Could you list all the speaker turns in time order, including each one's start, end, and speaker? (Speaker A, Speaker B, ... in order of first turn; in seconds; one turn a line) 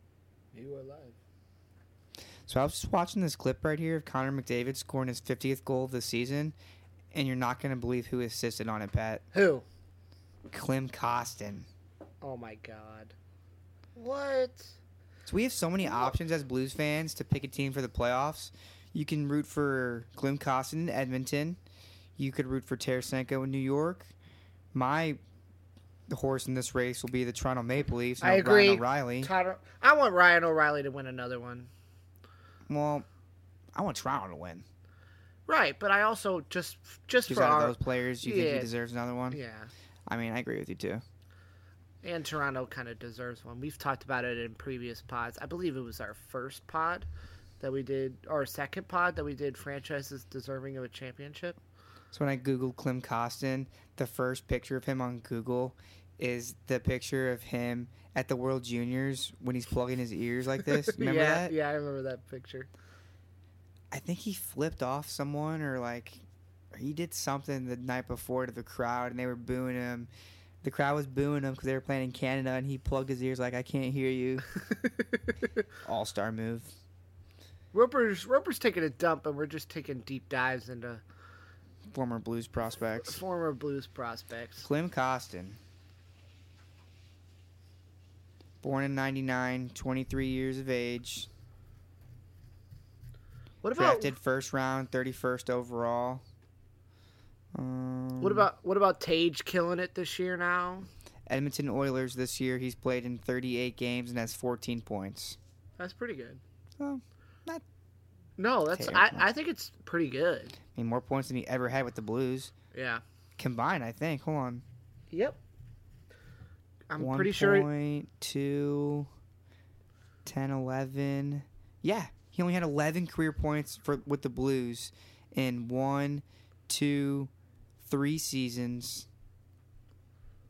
Speaker A: 0.5-1.1
Speaker B: 2.5-6.5
Speaker B: 7.1-9.2
Speaker A: 9.3-9.6
Speaker B: 10.5-11.7
Speaker A: 12.2-13.1
Speaker A: 13.9-14.8
Speaker B: 15.2-21.6
Speaker B: 22.2-24.1
Speaker B: 24.7-25.2
Speaker B: 26.1-29.3
Speaker A: 28.2-31.7
Speaker B: 32.7-33.0
Speaker B: 33.7-34.6
Speaker A: 35.5-38.7
Speaker B: 37.3-39.4
Speaker A: 39.3-39.7
Speaker B: 40.1-41.0
Speaker A: 42.0-47.1
Speaker A: 47.6-51.6
Speaker B: 52.1-61.5
Speaker A: 60.9-62.7
Speaker B: 63.9-66.2
Speaker B: 66.7-70.1
Speaker B: 70.6-74.5
Speaker B: 75.8-76.7
Speaker A: 77.7-81.0
Speaker B: 81.9-83.2
Speaker A: 83.0-84.7
Speaker B: 84.6-85.6
Speaker B: 88.6-91.3
Speaker A: 93.6-94.1
Speaker B: 93.8-96.2
Speaker B: 97.5-98.5
Speaker A: 98.2-100.9
Speaker B: 101.3-105.4
Speaker A: 105.8-106.4
Speaker B: 106.8-107.6
Speaker A: 108.4-110.6
Speaker B: 108.7-109.3
Speaker B: 110.7-112.5
Speaker A: 112.7-113.0
Speaker B: 113.4-114.6
Speaker A: 115.1-115.4
Speaker A: 116.9-117.7
Speaker B: 117.0-119.1
Speaker B: 120.2-129.1